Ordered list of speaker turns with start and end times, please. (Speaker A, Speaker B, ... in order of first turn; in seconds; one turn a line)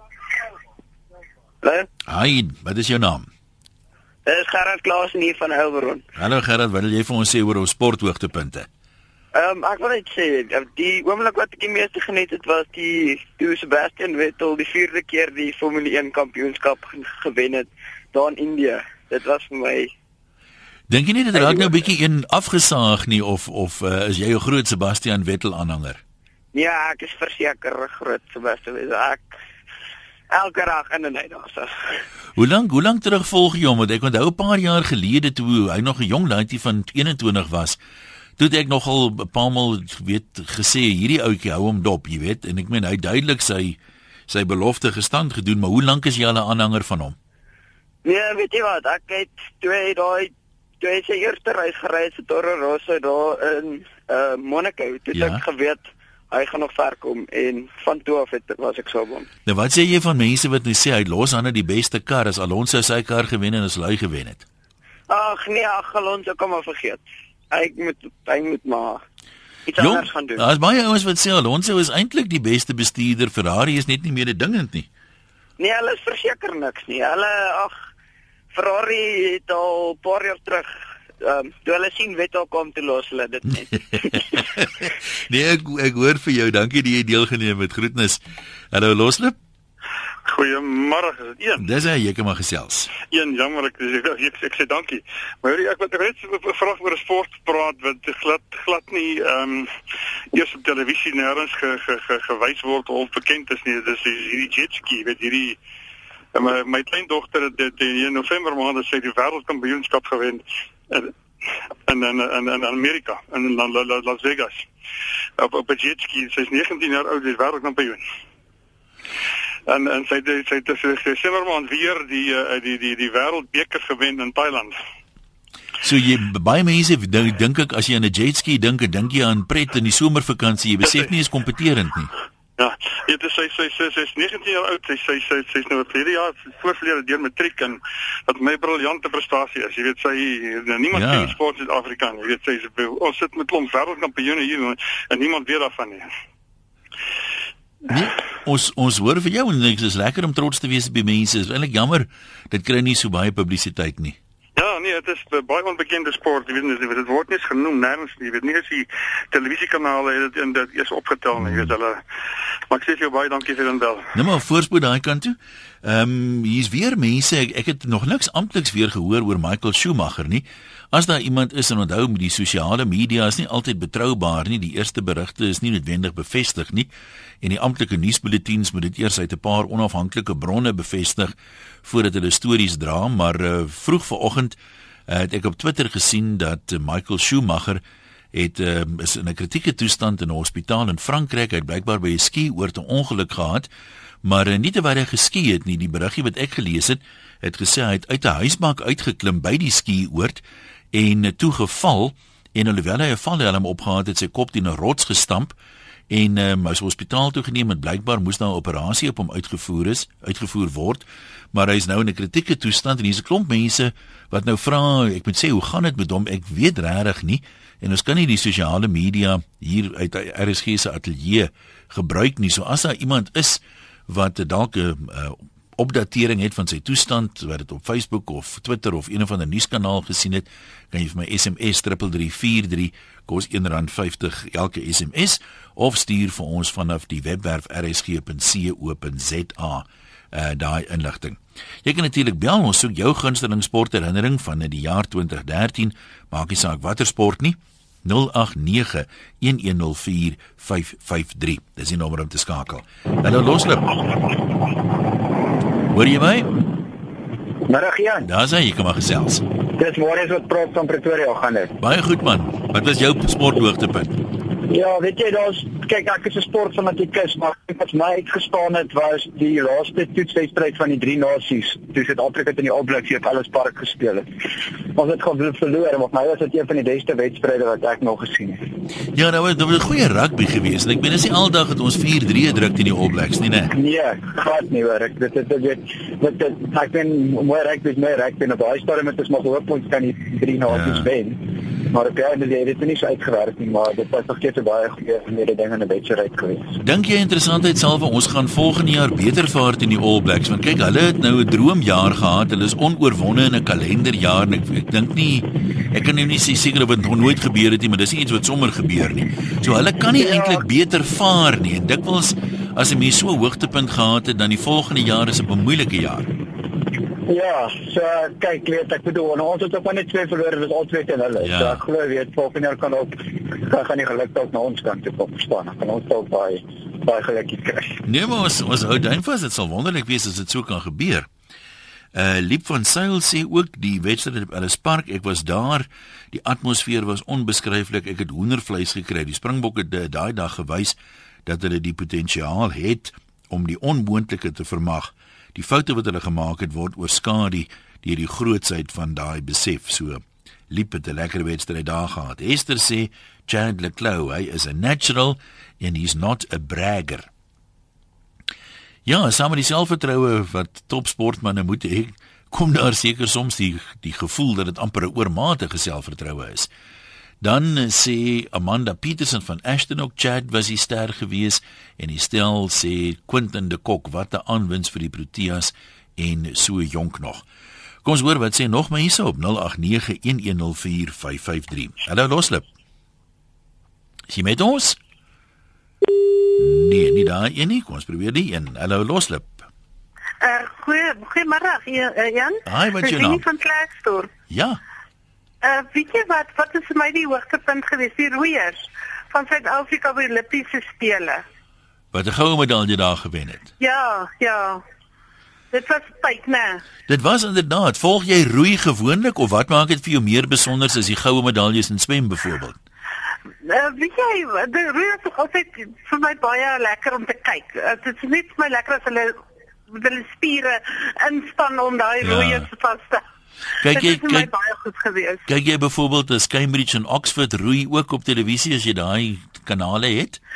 Speaker A: 1.6-1.9
Speaker B: 2.0-3.3
Speaker A: 4.2-6.0
Speaker B: 6.2-8.7
Speaker A: 9.3-19.9
Speaker B: 20.9-26.0
Speaker A: 21.3-21.7
Speaker A: 26.5-29.3
Speaker A: 30.3-31.7
Speaker B: 32.4-37.8
Speaker B: 38.4-43.8
Speaker B: 44.3-47.1
Speaker A: 48.0-59.3
Speaker B: 55.1-55.4
Speaker B: 59.5-64.4
Speaker A: 65.1-69.0
Speaker A: 69.7-70.5
Speaker B: 69.8-74.9
Speaker A: 75.6-77.8
Speaker A: 78.5-80.7
Speaker A: 81.2-84.4
Speaker B: 83.9-88.2
Speaker B: 88.7-89.4
Speaker C: 90.2-91.6
Speaker B: 91.6-92.9
Speaker C: 93.1-99.7
Speaker C: 100.3-105.6
Speaker C: 106.3-111.1
Speaker C: 111.9-114.7
Speaker C: 115.4-118.0
Speaker C: 119.7-124.8
Speaker B: 125.8-132.1
Speaker C: 132.6-146.1
Speaker B: 140.9-141.3
Speaker B: 147.9-154.2
Speaker C: 154.6-162.0
Speaker B: 161.4-161.7
Speaker C: 162.7-164.1
Speaker B: 164.1-176.9
Speaker B: 177.4-187.8
Speaker B: 188.3-193.7
Speaker B: 194.2-200.4
Speaker B: 200.9-205.6
Speaker B: 206.1-254.0
Speaker B: 255.9-256.5
Speaker D: 257.6-258.3
Speaker B: 258.2-259.4
Speaker D: 259.7-261.7
Speaker B: 261.8-264.2
Speaker D: 264.7-278.6
Speaker B: 279.1-283.7
Speaker D: 283.7-296.8
Speaker B: 290.7-291.1
Speaker B: 296.8-316.3
Speaker D: 310.2-310.6
Speaker D: 317.2-328.0
Speaker B: 321.4-321.8
Speaker B: 328.1-331.3
Speaker B: 332.1-357.3
Speaker B: 359.1-366.7
Speaker B: 367.4-377.4
Speaker B: 378.0-382.7
Speaker B: 384.3-385.0
Speaker B: 386.6-389.6
Speaker E: 390.4-394.3
Speaker B: 392.6-393.4
Speaker B: 394.5-394.8
Speaker E: 395.6-401.4
Speaker B: 402.1-403.7
Speaker E: 403.8-404.8
Speaker E: 405.7-406.8
Speaker B: 407.1-412.8
Speaker E: 413.6-423.2
Speaker B: 422.2-422.7
Speaker B: 423.8-424.5
Speaker E: 423.8-425.4
Speaker B: 425.5-430.4